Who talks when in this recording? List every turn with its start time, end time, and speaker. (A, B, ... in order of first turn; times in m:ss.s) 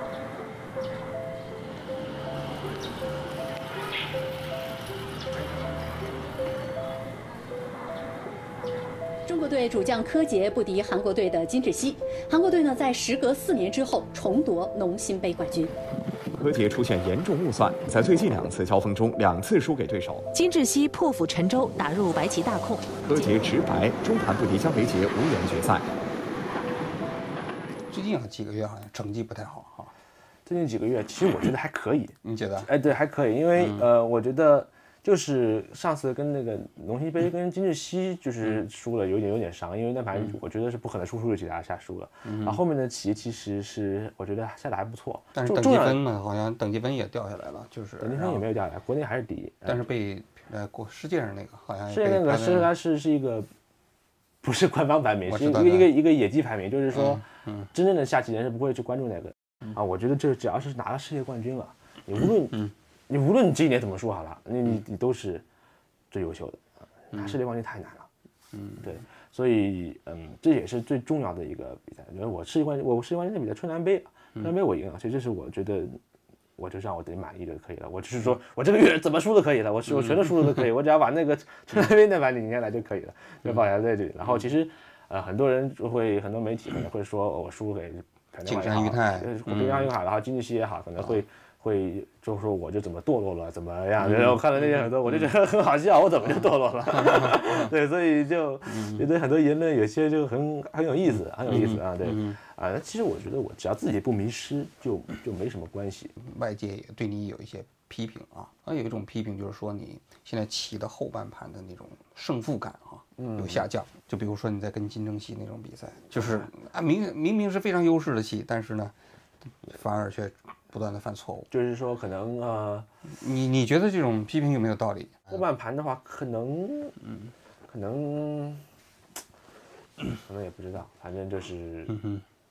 0:09.2-0:15.7 A
0:16.3-0:20.3 B
0:20.3-0:23.3 C
0:23.0-0:25.9 B
0:27.9-0:29.9 D
0:30.4-0:46.0 E
0:32.2-0:32.7 D
0:42.2-0:42.6 D
0:45.3-0:48.4 D
0:48.0-0:49.8 E
0:49.6-0:52.7 D
0:51.9-0:53.5 E
0:54.4-1:05.4 E
0:55.3-0:55.9 D
0:56.9-0:57.7 D
1:06.1-1:08.1 E
1:08.8-1:16.0 E
1:16.6-1:46.1 E
1:28.4-1:29.8 D
1:37.1-1:37.4 D
1:41.5-1:42.3 D
1:46.2-1:58.9 D
1:53.2-1:53.6 E
1:59.6-2:01.5 D
2:01.5-2:02.9 E
2:03.1-2:05.4 D
2:05.3-2:07.0 E
2:07.7-2:08.6 E
2:10.1-2:12.0 E
2:11.9-2:12.2 D